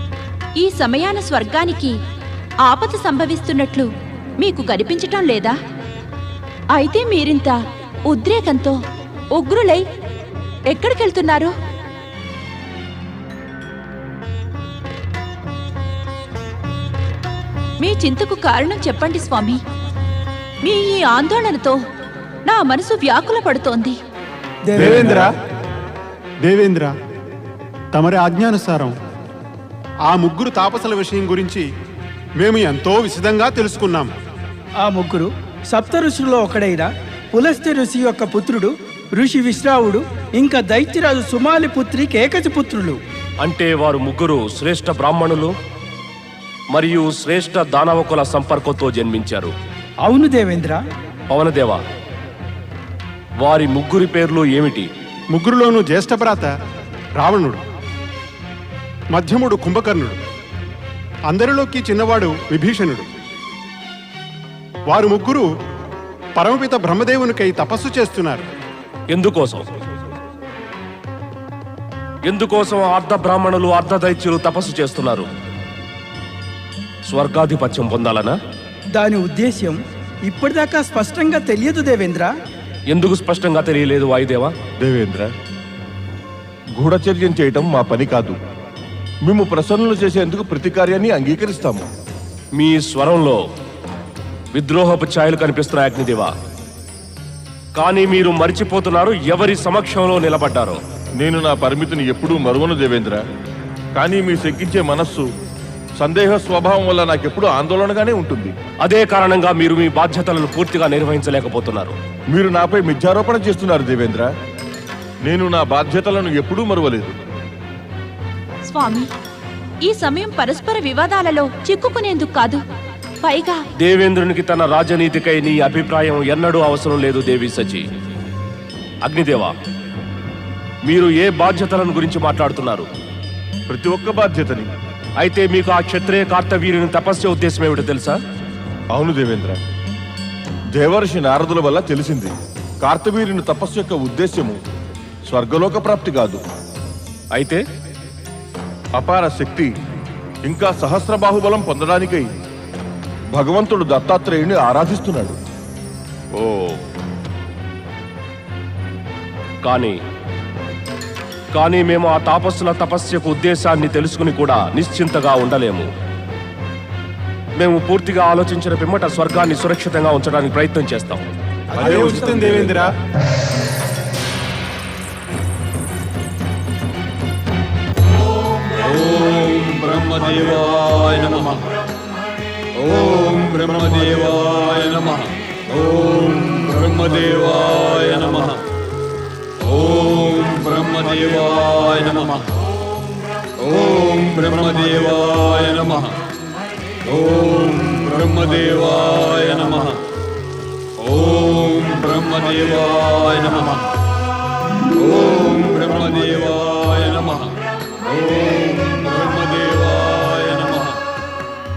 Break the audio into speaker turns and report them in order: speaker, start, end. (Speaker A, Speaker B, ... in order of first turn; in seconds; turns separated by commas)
Speaker A: 0.6-2.0, Speaker A: 2.6-5.5, Speaker A: 6.7-8.8, Speaker A: 9.3-9.8, Speaker A: 10.7-11.5, Speaker A: 17.8-19.6, Speaker A: 20.6-21.8, Speaker A: 22.4-24.0, Speaker B: 24.7-25.3, Speaker B: 26.4-26.9, Speaker B: 27.9-28.9, Speaker B: 30.1-31.7, Speaker B: 32.4-34.1, Speaker C: 34.8-43.0, Speaker D: 43.4-45.5, Speaker D: 46.7-49.5, Speaker C: 50.0-50.8, Speaker D: 51.3-51.8, Speaker D: 53.4-54.9, Speaker B: 55.3-56.5, Speaker B: 57.1-57.6, Speaker B: 59.1-60.2, Speaker B: 61.3-63.0, Speaker B: 64.8-65.5, Speaker B: 66.3-68.5, Speaker D: 69.1-69.7, Speaker D: 72.2-75.3, Speaker D: 77.1-78.3, Speaker C: 79.0-82.3, Speaker D: 82.9-84.5, Speaker E: 84.8-85.3, Speaker E: 86.8-88.4, Speaker E: 89.2-91.8, Speaker D: 92.5-93.4, Speaker D: 94.5-96.3, Speaker D: 97.8-100.8, Speaker E: 101.2-103.2, Speaker E: 104.0-105.3, Speaker E: 106.0-108.5, Speaker D: 108.8-112.0, Speaker E: 112.3-114.3, Speaker E: 115.2-117.1, Speaker A: 118.7-119.1, Speaker A: 119.8-122.6, Speaker A: 123.2-123.6, Speaker D: 123.8-127.8, Speaker D: 129.0-129.5, Speaker D: 130.8-132.9, Speaker E: 133.7-134.7, Speaker D: 135.2-138.2, Speaker E: 138.9-139.6, Speaker E: 140.7-144.6, Speaker E: 145.3-146.4, Speaker D: 147.3-147.6, Speaker E: 148.9-149.7, Speaker E: 150.4-152.3, Speaker E: 153.3-155.3, Speaker D: 156.3-156.8, Speaker D: 159.6-160.0, Speaker D: 161.5-165.9, Speaker D: 167.6-171.2, Speaker B: 171.7-172.9, Speaker F: 178.8-181.6, Speaker F: 182.8-188.6, Speaker F: 189.7-192.4, Speaker F: 193.6-196.1, Speaker F: 197.1-200.0, Speaker F: 201.0-203.8, Speaker F: 205.0-207.5, Speaker F: 208.1-210.9